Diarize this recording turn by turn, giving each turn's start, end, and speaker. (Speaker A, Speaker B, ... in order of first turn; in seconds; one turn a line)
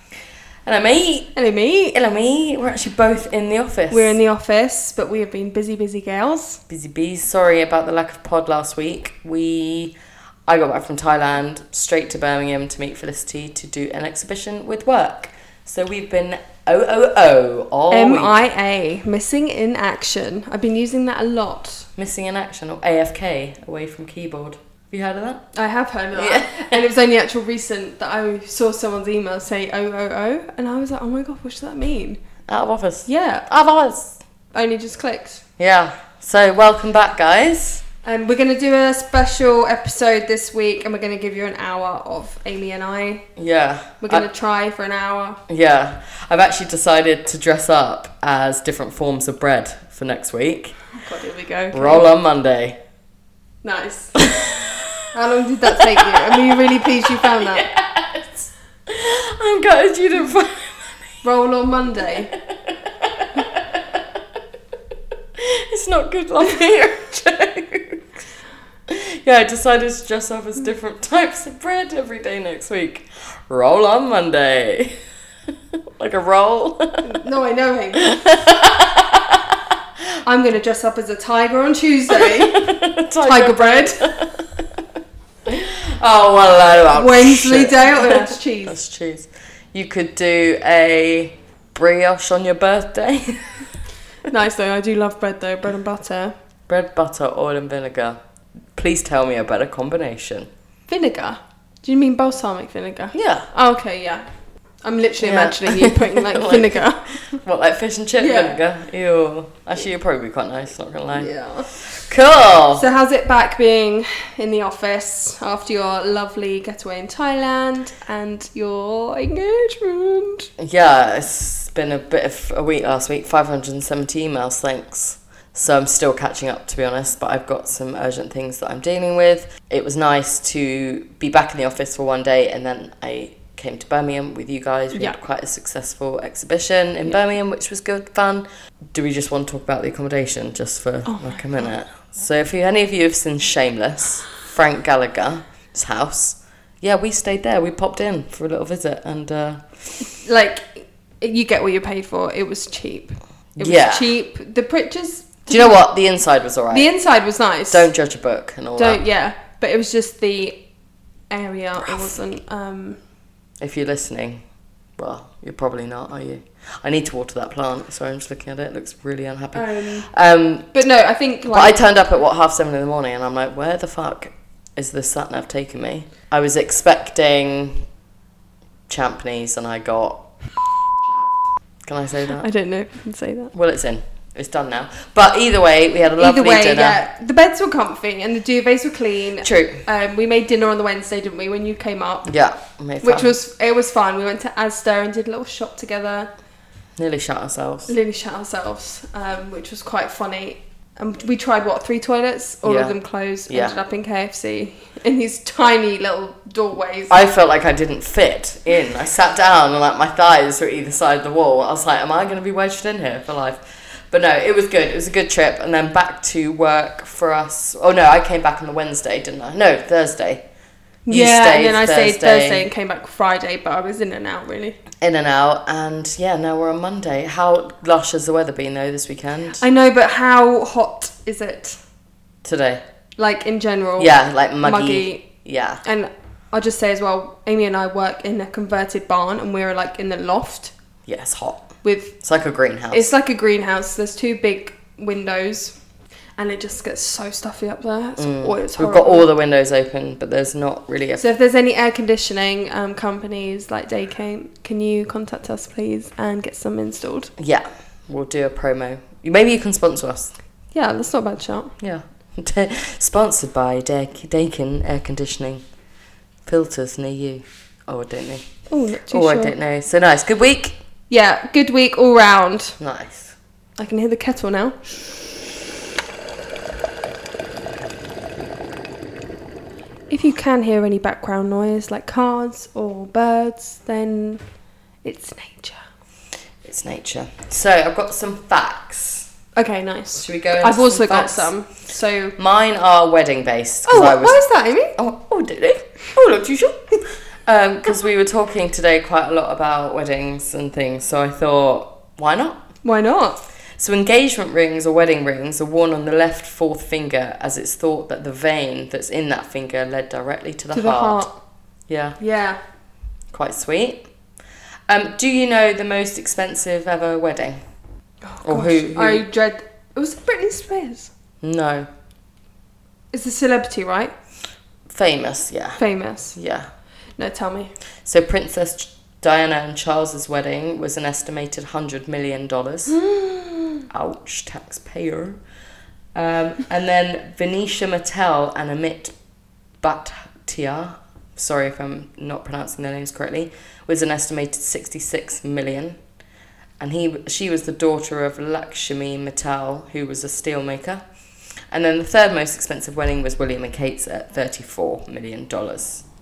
Speaker A: 0.7-1.3
Speaker B: 1.4-1.9
Speaker A: 1.9-4.2
Speaker B: 3.9-6.6
Speaker A: 6.7-9.9
Speaker A: 10.5-18.4
Speaker B: 17.9-21.9
Speaker A: 22.0-25.5
Speaker B: 25.5-32.2
Speaker A: 26.1-26.9
Speaker A: 32.5-34.2
Speaker B: 33.1-33.5
Speaker B: 34.5-35.4
Speaker A: 35.6-37.8
Speaker B: 38.0-43.3
Speaker A: 43.4-44.2
Speaker B: 44.0-45.4
Speaker A: 45.5-50.8
Speaker B: 50.9-52.1
Speaker A: 51.7-52.8
Speaker B: 53.6-54.3
Speaker A: 54.2-55.1
Speaker B: 55.1-57.7
Speaker A: 55.8-61.2
Speaker B: 61.2-62.3
Speaker A: 62.1-64.1
Speaker A: 65.4-68.1
Speaker A: 68.9-75.0
Speaker A: 76.0-77.1
Speaker B: 77.0-78.3
Speaker A: 78.0-79.7
Speaker B: 80.2-82.7
Speaker A: 82.1-84.9
Speaker B: 83.2-84.1
Speaker A: 85.5-93.7
Speaker B: 86.9-88.8
Speaker B: 94.2-96.3
Speaker A: 96.7-98.2
Speaker A: 98.8-100.5
Speaker B: 100.9-104.2
Speaker A: 103.1-103.5
Speaker B: 104.8-107.4
Speaker A: 105.2-112.9
Speaker B: 108.2-108.6
Speaker B: 111.1-112.0
Speaker B: 112.8-120.5
Speaker A: 120.6-149.7
Speaker B: 141.1-141.7
Speaker B: 150.0-155.8
Speaker A: 153.6-154.1
Speaker A: 155.5-156.9
Speaker B: 156.7-157.9
Speaker A: 157.7-159.0
Speaker B: 158.8-160.6
Speaker B: 161.3-163.0
Speaker A: 163.6-164.4
Speaker A: 165.0-170.7
Speaker B: 169.5-170.1
Speaker B: 170.7-171.8
Speaker A: 171.5-177.8
Speaker A: 178.9-180.3
Speaker A: 181.8-182.5
Speaker B: 182.4-183.5
Speaker A: 183.5-187.0
Speaker B: 186.2-192.3
Speaker A: 189.4-189.8
Speaker A: 192.2-193.3
Speaker B: 193.0-196.3
Speaker A: 197.0-197.9
Speaker B: 197.9-207.2
Speaker A: 202.6-202.9
Speaker A: 203.5-203.8
Speaker A: 207.1-220.4
Speaker B: 221.1-224.8
Speaker A: 221.1-222.7
Speaker A: 225.0-229.6
Speaker B: 229.6-231.8
Speaker A: 232.4-232.8
Speaker B: 233.2-235.3
Speaker A: 234.0-235.8
Speaker B: 235.8-240.7
Speaker A: 241.1-241.7
Speaker B: 241.8-242.2
Speaker A: 242.2-243.1
Speaker B: 242.9-245.7
Speaker B: 246.4-249.3
Speaker A: 248.2-251.2
Speaker B: 251.2-257.3
Speaker A: 257.4-260.3
Speaker B: 260.7-261.8
Speaker A: 261.8-265.6
Speaker A: 266.5-268.5
Speaker B: 268.7-269.5
Speaker A: 269.1-270.8
Speaker B: 271.1-272.8
Speaker A: 272.8-273.4
Speaker B: 273.8-274.8
Speaker B: 280.1-284.4
Speaker B: 285.0-285.8
Speaker A: 286.6-289.3
Speaker B: 289.6-292.4
Speaker A: 290.2-291.5
Speaker A: 292.4-294.4
Speaker B: 293.9-295.0
Speaker A: 295.0-302.6
Speaker B: 302.8-303.4
Speaker A: 303.8-311.2
Speaker B: 310.7-311.4
Speaker A: 311.9-312.2
Speaker B: 312.2-312.6
Speaker A: 313.3-314.1
Speaker A: 314.9-317.6
Speaker B: 318.2-321.1
Speaker A: 318.4-319.2
Speaker A: 321.4-321.9
Speaker B: 323.1-324.1
Speaker A: 324.9-325.8
Speaker B: 325.8-326.4
Speaker A: 326.3-326.7
Speaker B: 327.2-327.7
Speaker A: 328.1-333.0
Speaker B: 332.9-333.8
Speaker A: 333.9-335.4
Speaker A: 336.1-339.1
Speaker A: 339.8-346.0
Speaker A: 346.8-351.1
Speaker A: 351.7-356.0